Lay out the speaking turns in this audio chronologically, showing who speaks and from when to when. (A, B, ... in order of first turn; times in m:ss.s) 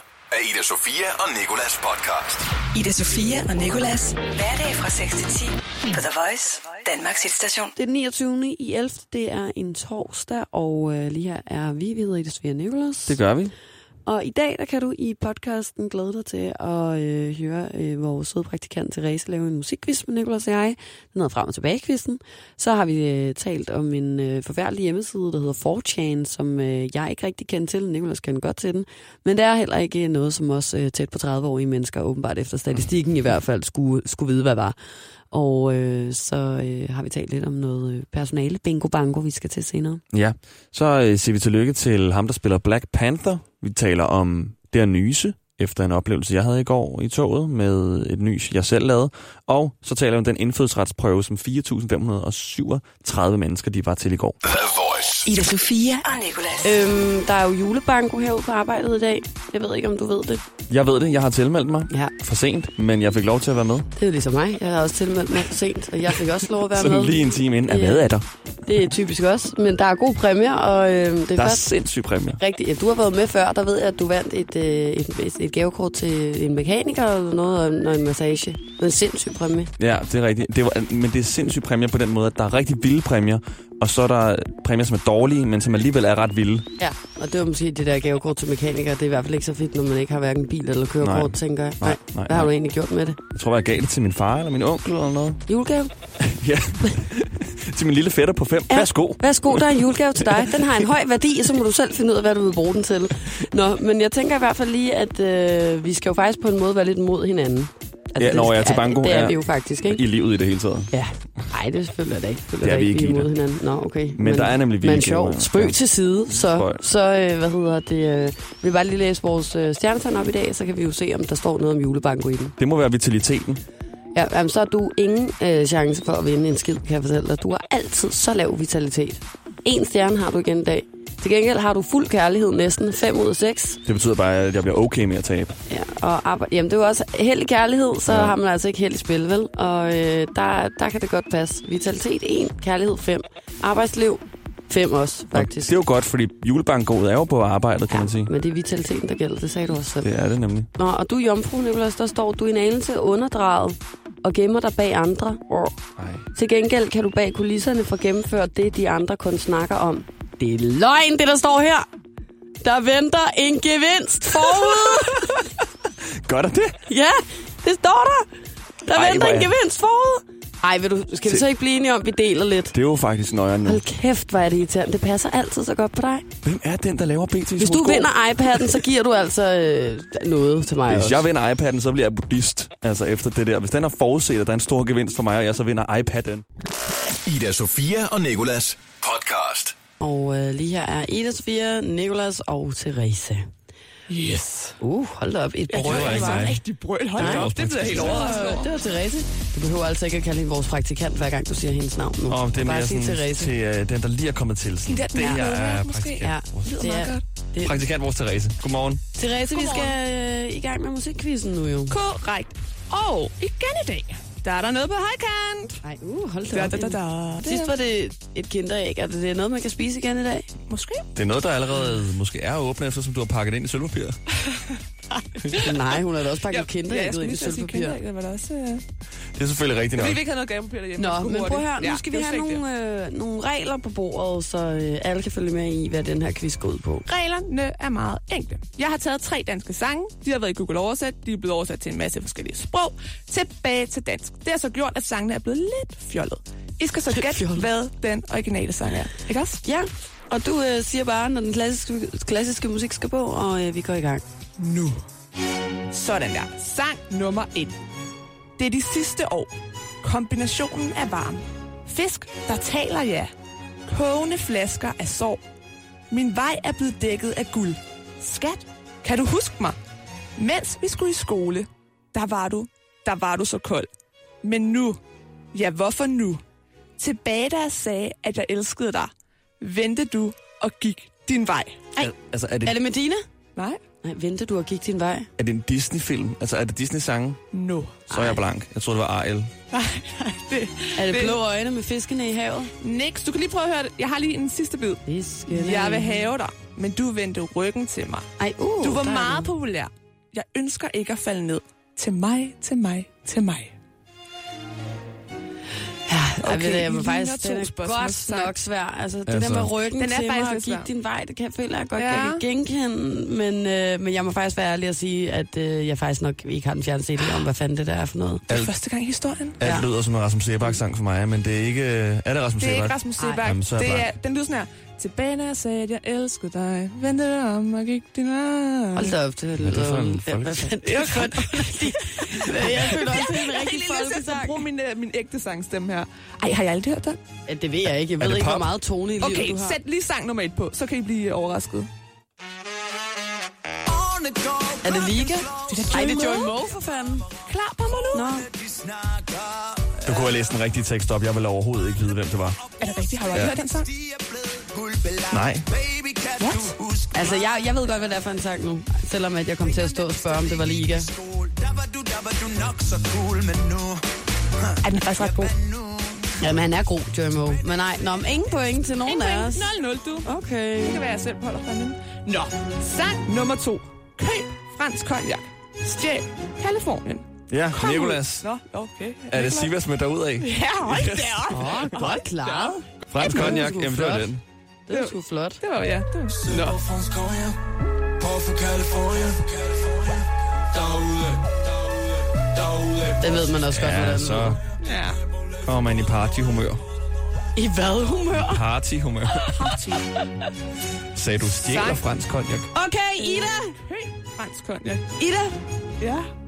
0:02.7-0:07.7 A
0:07.8-0:13.2 B
0:13.0-0:13.5 C
0:14.0-0:34.8 B
0:35.3-0:40.0 B
0:40.1-0:54.4 C
0:54.6-0:55.2 D
0:55.2-0:56.8 A
0:56.6-1:00.4 B
1:00.7-1:03.9 C
1:04.0-1:08.1 B
1:06.7-1:08.2 C
1:08.6-1:11.7 B
1:11.4-1:12.4 C
1:12.4-1:19.7 B
1:19.8-1:26.7 C
1:26.8-1:33.2 B
1:31.0-1:32.5 C
1:33.3-1:35.4 C
1:35.5-1:35.9 B
1:36.2-1:40.6 C
1:38.7-1:50.0 B
1:48.2-1:50.9 C
1:50.9-2:02.6 B
1:52.6-1:53.3 C
1:54.2-1:55.8 C
1:56.3-1:56.8 C
2:02.6-2:03.6 C
2:04.1-2:13.8 B
2:13.8-2:15.6 C
2:15.7-2:25.7 B
2:18.1-2:18.3 C
2:25.3-2:28.3 C
2:27.9-2:30.1 B
2:30.0-2:30.7 C
2:30.8-2:35.8 B
2:36.0-2:36.2 C
2:36.3-2:41.8 B
2:42.6-2:45.4 B
2:44.4-2:45.5 C
2:46.0-2:46.8 C
2:46.8-2:48.3 B
2:48.8-2:52.7 B
2:48.9-2:49.5 C
2:52.7-2:53.8 C
2:53.6-2:56.2 B
2:56.4-2:58.7 C
2:57.6-3:01.3 B
3:00.9-3:06.4 C
3:07.3-3:07.6 D
3:08.8-3:09.7 D
3:10.0-3:13.4 B
3:14.1-3:14.8 E
3:14.8-3:16.5 B
3:15.7-3:18.7 E
3:15.7-3:16.6 C
3:17.2-3:18.2 C
3:17.2-3:23.5 B
3:22.3-3:26.8 C
3:24.8-3:27.2 E
3:25.2-3:25.5 B
3:26.2-3:27.8 B
3:27.6-3:29.0 C
3:29.2-3:32.0 B
3:29.5-3:30.0 E
3:31.9-3:35.8 E
3:35.8-3:40.5 B
3:36.5-3:37.7 E
3:40.7-3:41.1 E
3:41.2-3:44.2 C
3:45.5-3:48.0 B
3:46.5-3:48.8 E
3:49.4-3:50.2 C
3:50.0-3:52.6 E
3:51.0-3:57.1 B
3:57.1-4:09.6 E
4:07.1-4:07.7 B
4:09.6-4:14.2 B
4:14.6-4:15.0 E
4:15.9-4:17.8 E
4:18.6-4:23.3 E
4:23.9-4:25.4 E
4:26.1-4:29.8 E
4:30.4-4:33.9 E
4:34.4-4:35.0 E
4:35.5-4:36.4 E
4:37.0-4:42.1 E
4:42.0-4:42.8 C
4:42.6-4:43.2 B
4:44.0-4:45.3 B
4:45.4-4:47.4 C
4:47.5-4:48.1 E
4:48.1-4:48.4 B
4:48.1-4:49.5 C
4:49.7-4:51.4 E
4:51.0-4:52.7 B
4:52.8-4:58.3 E
4:55.0-4:56.3 B
4:58.4-4:59.5 B
4:58.8-5:03.7 E
5:06.1-5:18.5 B
5:06.4-5:08.5 E
5:09.3-5:09.7 C
5:10.0-5:10.9 E
5:12.0-5:12.4 E
5:18.5-5:19.8 E
5:19.6-5:24.1 C
5:22.6-5:29.2 E
5:23.2-5:23.4 B
5:28.9-5:34.6 B
5:29.6-5:30.7 C
5:30.8-5:37.2 E
5:37.4-5:39.8 B
5:38.2-5:38.7 C
5:39.2-5:41.9 E
5:43.9-5:46.0 D
5:44.8-5:47.3 B
5:45.7-5:46.5 E
5:47.5-5:48.3 E
5:48.1-5:48.5 B
5:48.5-5:50.2 D
5:50.0-5:52.6 C
5:52.8-5:53.9 E
5:53.3-5:53.6 C
5:54.0-5:57.1 D
5:55.3-5:55.7 C
5:56.4-5:56.8 E
5:57.1-6:01.1 B
6:00.5-6:04.0 D
6:04.8-6:05.5 E
6:05.4-6:06.3 D
6:06.4-6:09.7 B
6:09.0-6:10.3 E
6:10.2-6:11.0 B
6:10.8-6:19.7 E
6:17.5-6:18.5 C
6:19.3-6:21.5 C
6:20.4-6:23.5 E
6:21.5-6:24.3 B
6:23.1-6:24.4 C
6:24.9-6:25.6 B
6:24.9-6:27.0 E
6:27.1-6:27.5 D
6:28.7-6:29.3 D
6:33.1-6:34.6 B
6:33.7-6:34.6 C
6:34.8-6:35.2 E
6:35.6-6:36.8 C
6:37.5-6:38.6 B
6:38.4-6:39.6 C
6:39.4-6:40.2 E
6:41.1-6:42.7 C
6:41.5-6:42.0 E
6:42.7-6:43.7 B
6:43.2-6:45.1 E
6:45.2-6:45.5 B
6:46.0-6:46.3 E